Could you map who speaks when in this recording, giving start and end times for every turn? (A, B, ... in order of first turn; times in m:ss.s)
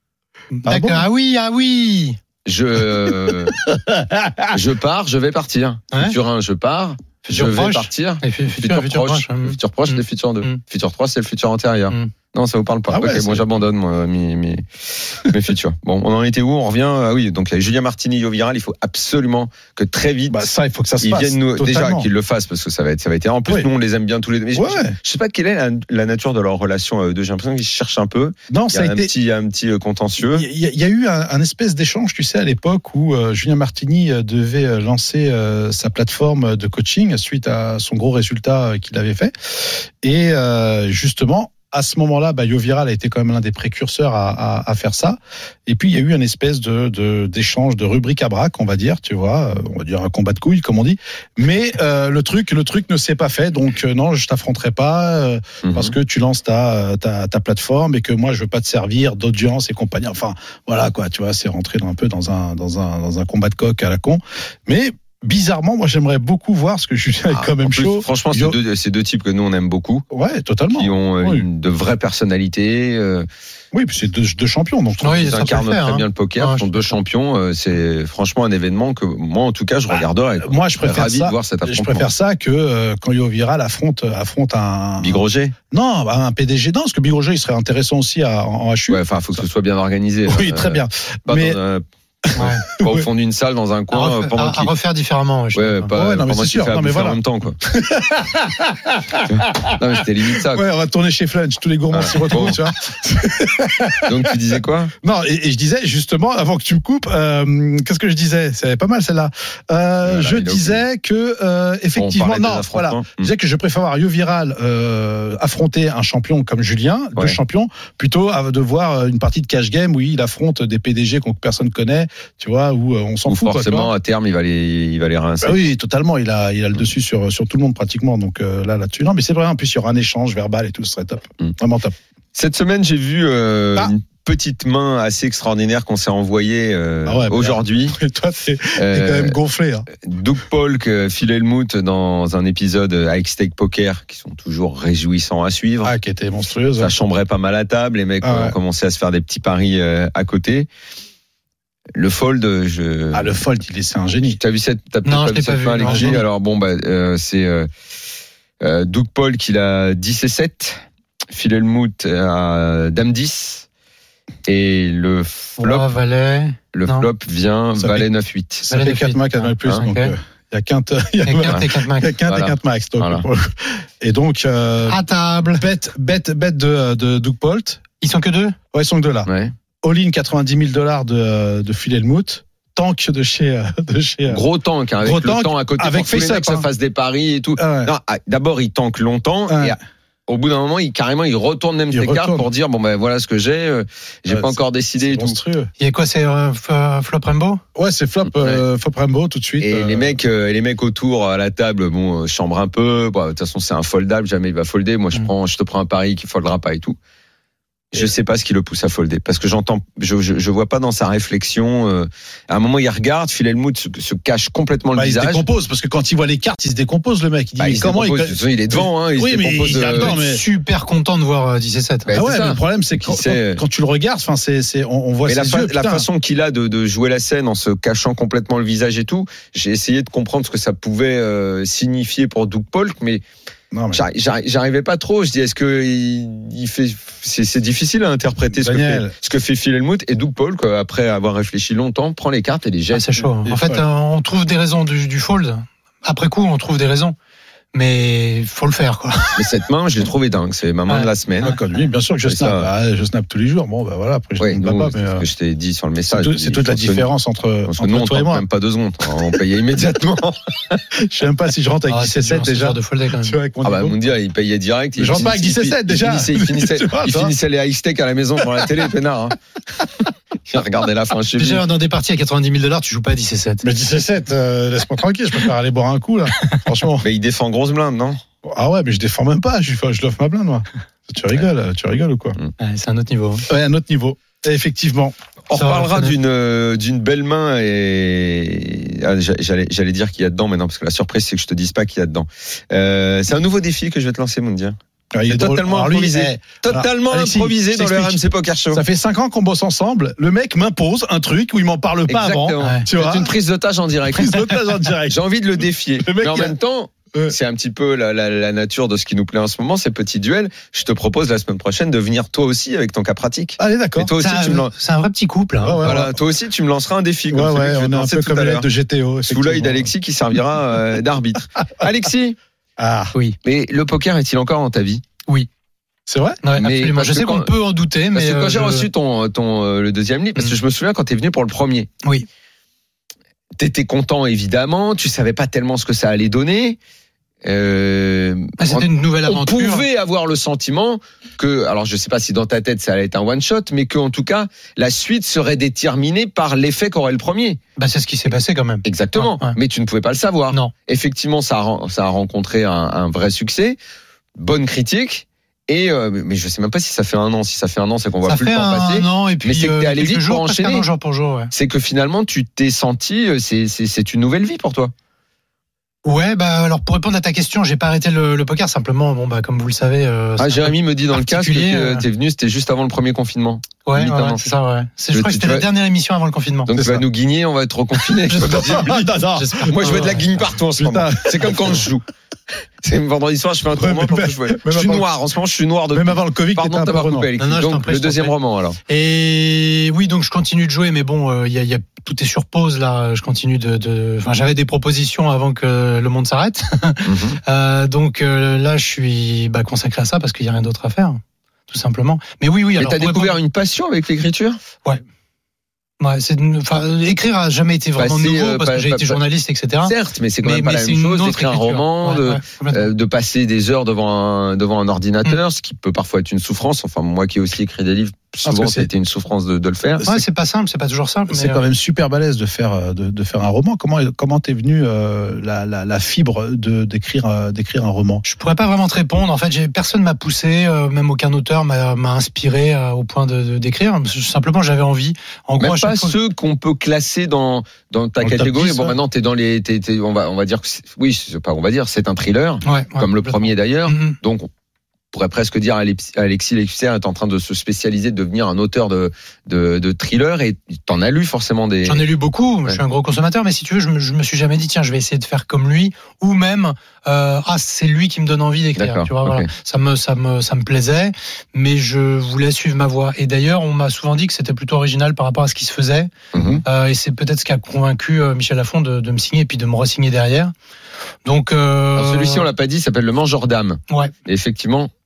0:00.5-0:02.2 A
0:00.7-0:01.0 B
0:02.4-0:03.6 C
0:03.6-0:04.6 B
0:04.5-0:20.4 C
0:07.3-0:10.6 A
0:12.9-0:13.5 B
0:20.3-0:22.1 B
0:21.0-0:30.5 C
0:24.5-0:25.0 B
0:28.5-0:29.1 B
0:30.2-1:08.6 B
0:55.6-0:55.9 C
1:07.3-1:10.0 C
1:10.1-1:11.5 B
1:10.8-1:13.3 C
1:13.7-1:15.6 B
1:15.0-1:16.6 A
1:15.1-1:22.0 C
1:19.9-1:29.4 B
1:25.0-1:25.6 C
1:28.9-1:31.8 C
1:30.3-1:31.6 B
1:32.3-1:33.1 B
1:32.4-1:32.6 A
1:32.4-1:34.7 C
1:33.9-1:35.9 A
1:35.6-1:37.6 C
1:35.9-1:39.7 B
1:39.3-1:40.6 C
1:40.4-1:44.3 B
1:41.9-1:42.6 C
1:44.0-1:44.9 C
1:45.0-2:03.9 B
1:50.0-1:50.8 C
1:52.0-1:53.3 C
2:03.3-2:05.6 C
2:05.4-2:12.0 B
2:12.4-2:18.0 C
2:17.1-2:19.9 B
2:18.8-2:19.4 C
2:20.0-2:25.9 C
2:25.8-2:26.9 B
2:26.8-2:30.7 C
2:28.2-2:28.6 B
2:32.0-2:33.4 C
2:33.1-2:34.4 B
2:34.3-2:37.7 C
2:35.0-2:36.1 A
2:35.8-2:36.2 B
2:38.6-2:43.7 C
2:44.5-2:45.9 C
2:45.6-2:47.1 A
2:46.7-2:48.7 C
2:47.8-2:48.1 B
2:48.7-2:50.2 A
2:48.7-2:55.0 B
2:51.2-2:52.1 A
2:52.3-2:53.2 C
2:54.9-2:55.6 A
2:55.6-2:57.8 B
2:58.0-2:58.6 A
2:58.7-2:59.3 B
2:59.3-2:59.5 C
2:59.8-3:04.4 B
3:04.3-3:15.4 C
3:05.0-3:06.7 B
3:07.6-3:07.9 B
3:09.5-3:09.8 B
3:11.9-3:12.5 B
3:14.3-3:15.7 B
3:15.8-3:17.6 A
3:17.8-3:20.1 B
3:19.6-3:27.0 C
3:27.9-3:35.4 C
3:35.0-3:40.4 B
3:37.6-3:40.1 C
3:39.9-3:42.1 A
3:42.1-3:43.6 C
3:42.1-3:46.1 B
3:45.3-3:53.2 C
3:53.7-3:54.0 B
3:53.9-4:03.2 C
3:58.5-3:59.1 B
4:02.9-4:07.2 A
4:03.4-4:03.8 B
4:07.7-4:09.4 A
4:09.4-4:11.6 C
4:11.4-4:15.2 B
4:12.2-4:12.7 C
4:14.4-4:17.1 C
4:16.1-4:18.4 B
4:17.6-4:20.8 C
4:21.0-4:24.0 B
4:21.9-4:23.4 A
4:23.6-4:29.4 C
4:25.0-4:27.3 B
4:28.4-4:28.7 B
4:30.5-4:31.6 C
4:31.4-4:33.6 A
4:33.6-4:37.0 B
4:37.0-4:38.2 C
4:38.4-4:42.4 B
4:42.6-4:43.5 A
4:43.5-4:45.2 B
4:45.5-4:54.8 C
4:45.5-4:46.1 A
4:55.1-4:58.2 B
4:55.3-4:58.8 C
4:58.7-5:03.3 B
5:02.1-5:04.5 C
5:04.1-5:05.2 B
5:05.1-5:14.7 C
5:06.0-5:06.6 B
5:13.6-5:14.1 B
5:14.2-5:15.8 A
5:15.6-5:16.2 B
5:15.8-5:18.7 C
5:17.3-5:19.9 B
5:19.3-5:22.4 C
5:22.8-5:23.1 B
5:23.4-5:25.0 C
5:26.1-5:26.4 B
5:26.4-5:28.9 A
5:26.6-5:27.5 C
5:28.1-5:31.9 C
5:33.6-5:36.8 C
5:37.4-5:47.6 C
5:38.6-5:39.8 A
5:47.8-5:49.6 A
5:48.8-5:53.8 C
5:54.4-6:00.9 C
5:58.3-6:01.5 A
6:01.5-6:04.9 C
6:06.0-6:12.0 A
6:10.4-6:14.4 C
6:13.9-6:16.7 A
6:15.1-6:15.7 C
6:16.7-6:19.1 C
6:16.7-6:17.0 B
6:18.3-6:20.2 A
6:18.4-6:20.2 B
6:19.6-6:22.0 C
6:20.7-6:21.9 B
6:22.8-6:28.8 C
6:23.8-6:25.1 B
6:25.9-6:27.3 B
6:27.4-6:28.3 A
6:28.9-6:43.3 A
6:37.0-6:37.4 C
6:42.8-6:44.6 C
6:46.0-6:52.9 A
6:48.0-6:49.2 C
6:49.8-7:00.0 C
6:58.4-6:58.9 B
7:00.0-7:01.6 A
7:01.3-7:08.2 B
7:08.2-7:16.2 A
7:15.6-7:24.5 C
7:18.2-7:19.0 B
7:22.6-7:24.2 A
7:25.1-7:32.1 C
7:31.8-7:46.1 A
7:38.8-7:39.5 C
7:46.3-7:46.6 C
7:46.4-7:46.6 B
7:46.6-7:50.5 A
7:51.2-7:52.4 A
7:52.0-7:54.9 C